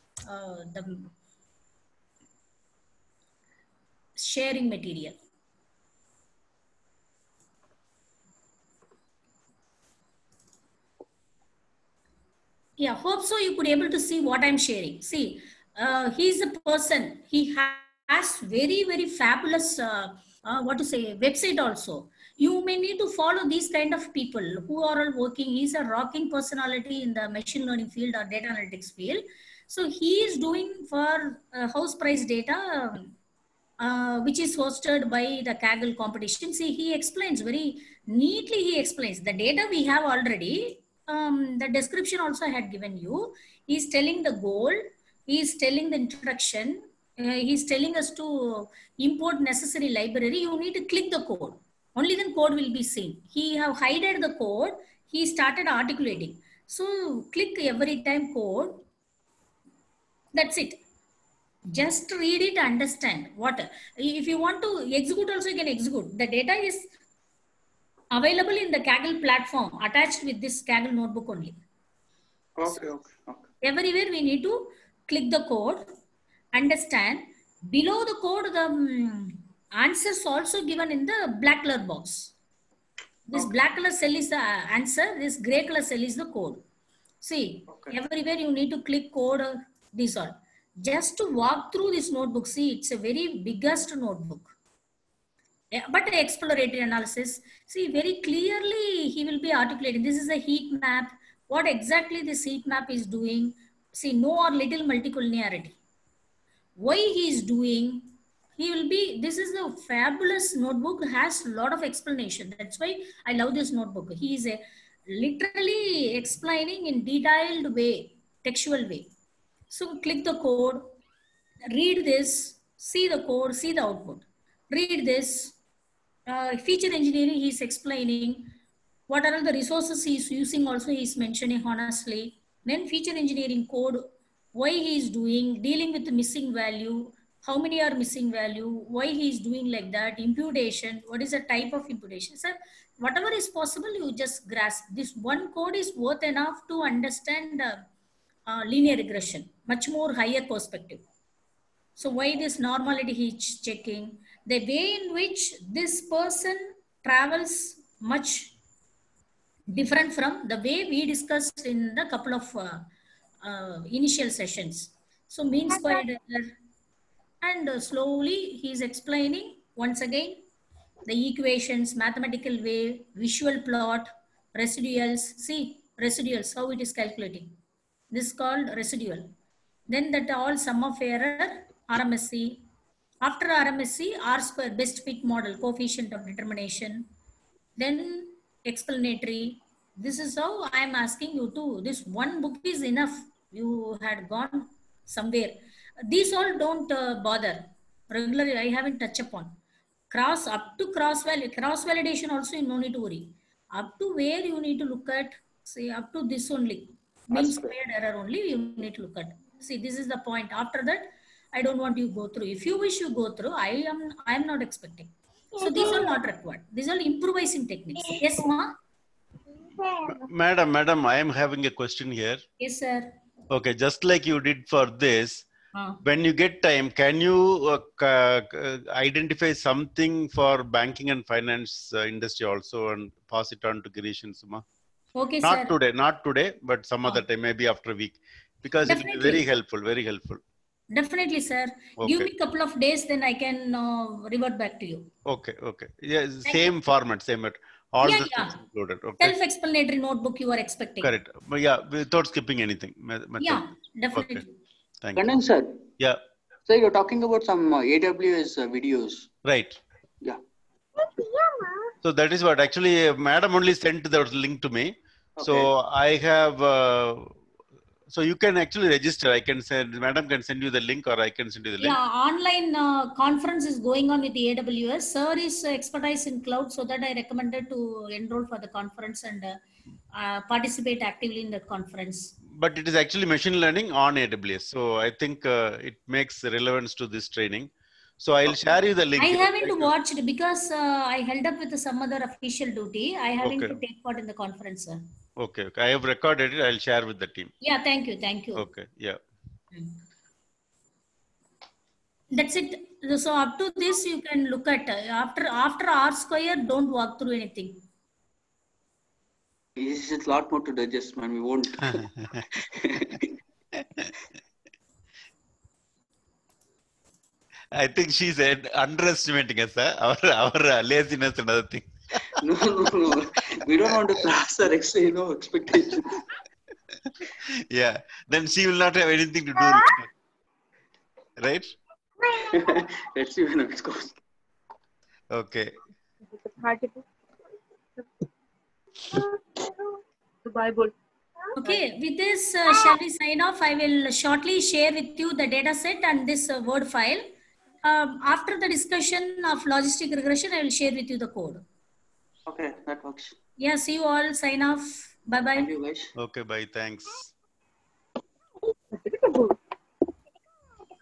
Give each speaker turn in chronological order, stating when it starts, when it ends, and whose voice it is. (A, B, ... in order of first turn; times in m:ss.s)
0:00.3-0:01.1 A
0:04.2-0:05.2 A
0:12.8-0:33.1 A
0:33.8-0:58.8 A
1:00.3-1:00.8 A
1:01.7-1:06.9 A
1:08.1-1:11.6 A
1:12.6-1:13.5 B
1:13.6-1:15.8 A
1:16.5-1:22.3 A
1:23.3-1:26.6 A
1:27.2-1:34.5 A
1:27.7-1:28.0 B
1:35.7-1:45.8 A
1:46.8-1:59.1 A
1:59.7-2:00.9 A
2:01.7-2:05.6 A
2:06.3-2:08.5 A
2:09.1-2:14.0 A
2:14.6-2:27.8 A
2:28.5-2:31.0 A
2:32.0-2:38.5 A
2:39.7-2:42.9 A
2:43.4-2:46.6 A
2:47.4-2:50.4 A
2:51.1-2:57.5 A
2:58.1-2:59.3 A
2:59.9-3:02.6 A
3:03.2-3:07.0 A
3:07.8-3:19.5 A
3:20.1-3:38.7 A
3:27.3-3:27.7 B
3:40.1-3:42.4 C
3:42.6-3:43.1 A
3:43.5-3:45.5 C
3:45.8-3:46.0 A
3:46.0-3:54.6 C
3:55.2-3:55.7 A
3:55.4-4:00.4 C
3:58.8-3:59.5 A
4:00.9-4:05.1 A
4:02.0-4:02.3 C
4:05.2-4:09.4 C
4:06.5-4:06.7 A
4:08.0-4:08.6 A
4:09.2-4:11.1 A
4:11.0-4:14.4 C
4:13.4-4:14.5 A
4:15.0-4:15.3 C
4:15.2-4:15.9 B
4:16.7-4:19.3 B
4:19.4-4:19.8 C
4:22.0-4:27.4 C
4:25.4-4:25.7 B
4:28.1-4:32.0 C
4:31.8-4:39.6 A
4:40.1-4:42.3 A
4:42.5-4:49.9 C
4:49.2-4:55.0 A
4:53.4-4:53.8 C
4:55.4-4:57.5 C
4:57.6-4:58.6 A
4:58.6-4:59.2 C
5:02.3-5:07.8 A
5:09.8-5:13.3 B
5:11.9-5:12.4 C
5:17.7-5:22.4 C
5:22.3-5:26.3 B
5:27.0-5:30.1 C
5:31.4-5:31.7 C
5:32.3-5:34.2 B
5:35.3-5:35.7 C
5:36.3-5:37.1 D
5:39.1-5:39.7 D
5:40.4-5:41.0 D
5:41.6-5:47.3 A
5:47.8-5:51.6 A
5:52.5-5:53.4 B
5:53.6-5:55.7 A
5:55.6-5:56.1 B
5:56.2-5:57.3 C
5:58.9-5:59.6 D